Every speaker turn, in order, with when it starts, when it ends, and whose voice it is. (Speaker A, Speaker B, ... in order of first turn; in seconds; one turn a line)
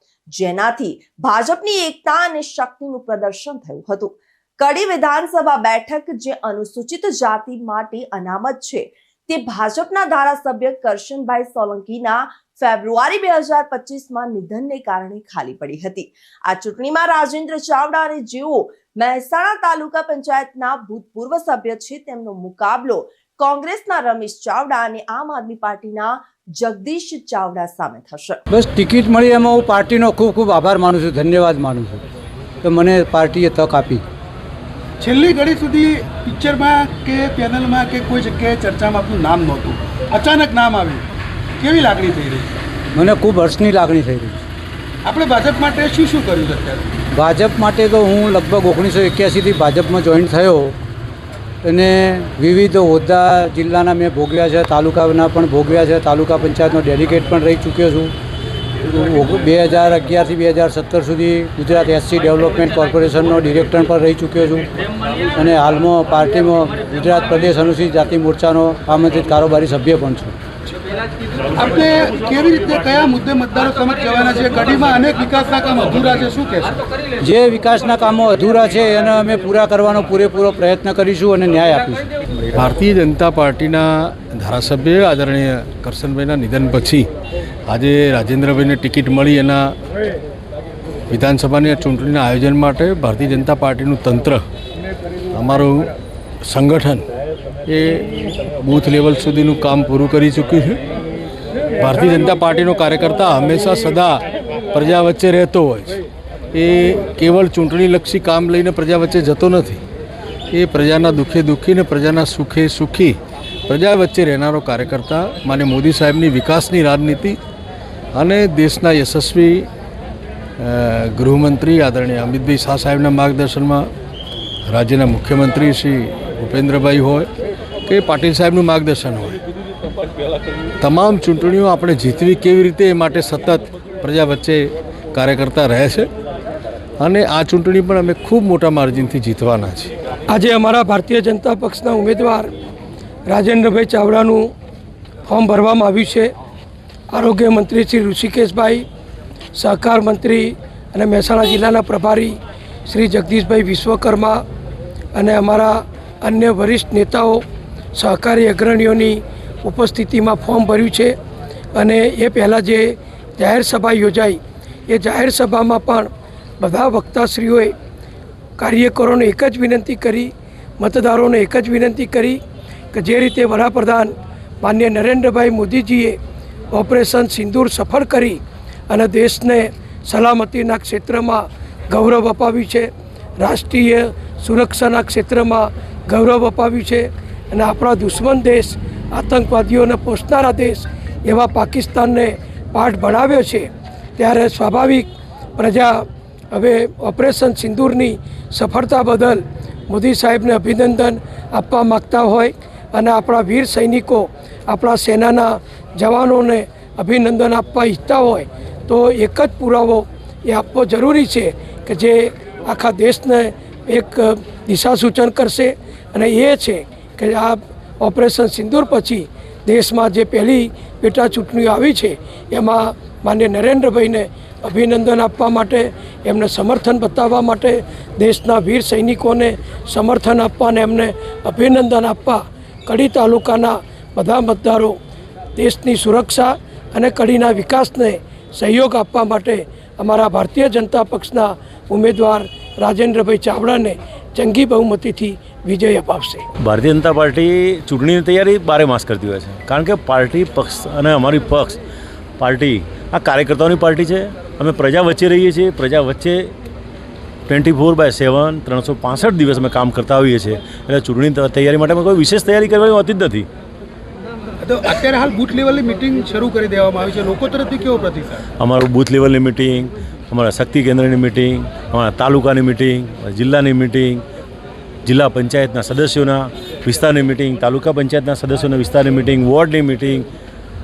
Speaker A: 0.3-28.4
Speaker B: 28.5-32.0
Speaker B: 32.6-34.0
Speaker C: 35.0-41.0
Speaker C: 41.6-42.5
Speaker B: 42.9-44.4
Speaker C: 45.0-46.8
Speaker B: 47.1-50.8
Speaker B: 51.6-58.1
Speaker B: 58.8-64.7
Speaker B: 65.3-70.4
Speaker C: 71.5-76.8
Speaker B: 77.2-82.1
Speaker D: 82.5-87.1
Speaker D: 87.7-89.7
Speaker D: 91.1-94.4
Speaker D: 95.3-95.9
Speaker D: 96.4-97.1
Speaker D: 97.7-100.8
Speaker D: 101.8-106.0
Speaker D: 106.5-109.8
Speaker D: 110.5-117.4
Speaker D: 118.1-119.7
Speaker D: 120.6-123.9
Speaker D: 124.7-127.3
Speaker D: 127.9-129.4
Speaker D: 130.8-136.1
Speaker D: 137.0-139.9
Speaker E: 140.3-142.5
Speaker E: 143.3-144.5
Speaker E: 145.2-146.3
Speaker E: 147.1-148.8
Speaker E: 149.5-154.4
Speaker E: 155.1-161.2
Speaker E: 161.7-167.7
Speaker E: 168.6-172.4
Speaker E: 172.9-176.2
Speaker E: 176.7-235.0
Speaker E: 235.6-246.5
Speaker F: 246.6-251.8
Speaker F: 252.4-256.5
Speaker F: 257.5-263.5
Speaker C: 264.6-268.4
Speaker F: 268.6-274.2
Speaker F: 275.0-280.2